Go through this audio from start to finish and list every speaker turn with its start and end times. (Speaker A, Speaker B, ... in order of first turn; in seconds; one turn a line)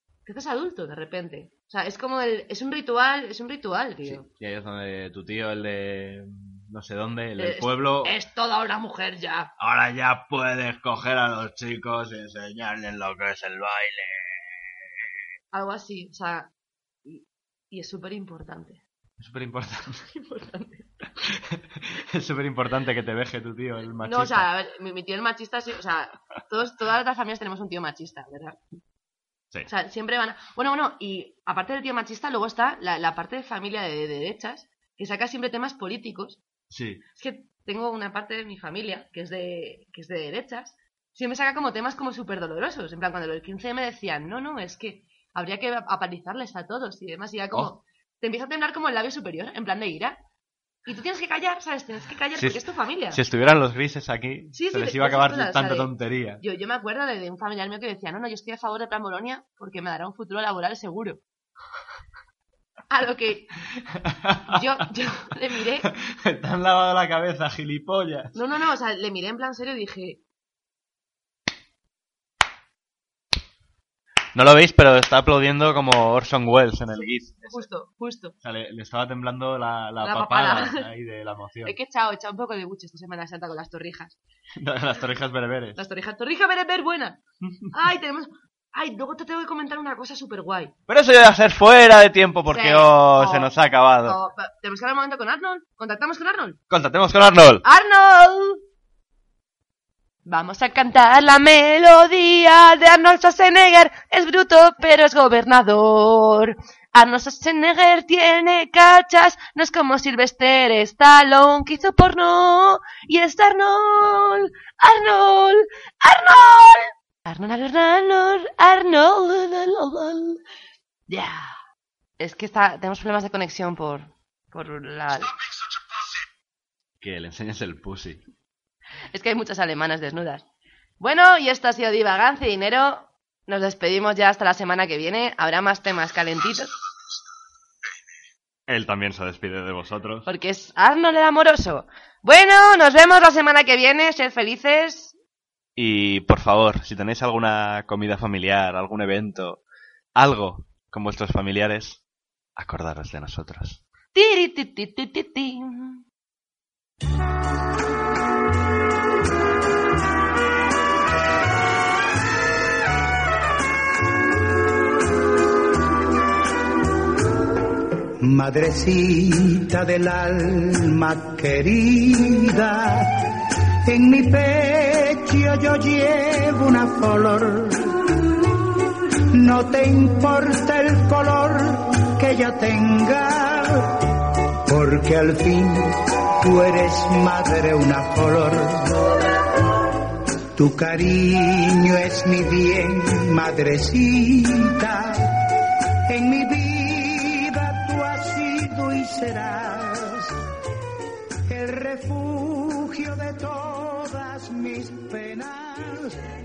Speaker A: 0.3-4.3
Speaker B: 4.0-8.2
Speaker A: 7.4-9.5
Speaker B: 9.6-14.7
Speaker A: 15.5-16.5
Speaker A: 17.1-18.8
Speaker B: 19.2-20.1
Speaker A: 20.1-21.0
Speaker B: 21.2-24.5
Speaker A: 24.0-28.6
Speaker A: 29.7-36.4
Speaker B: 36.7-37.0
Speaker A: 37.2-50.2
Speaker A: 50.9-53.2
Speaker B: 52.4-56.4
Speaker A: 54.5-61.2
Speaker A: 62.9-63.5
Speaker B: 63.8-64.6
Speaker A: 64.5-65.9
Speaker B: 65.8-68.4
Speaker A: 68.3-70.2
Speaker B: 74.3-77.7
Speaker A: 77.0-78.4
Speaker B: 78.4-81.8
Speaker A: 80.0-80.9
Speaker A: 81.7-84.2
Speaker B: 84.5-85.8
Speaker A: 85.8-87.2
Speaker B: 87.4-87.7
Speaker A: 87.7-90.7
Speaker B: 90.9-94.2
Speaker A: 92.5-96.6
Speaker B: 96.7-97.7
Speaker A: 97.6-98.6
Speaker A: 100.3-120.4
Speaker A: 121.1-121.6
Speaker A: 122.2-125.3
Speaker B: 127.0-128.2
Speaker A: 129.1-130.5
Speaker A: 131.0-136.7
Speaker B: 138.7-140.3
Speaker A: 140.3-145.2
Speaker B: 145.8-149.6
Speaker B: 150.2-152.0
Speaker B: 152.6-153.8
Speaker A: 154.2-156.0
Speaker C: 168.2-173.1
Speaker C: 173.9-178.0
Speaker C: 179.3-183.8
Speaker C: 184.7-189.1
Speaker C: 190.6-195.2
Speaker C: 196.1-200.3
Speaker C: 201.5-206.2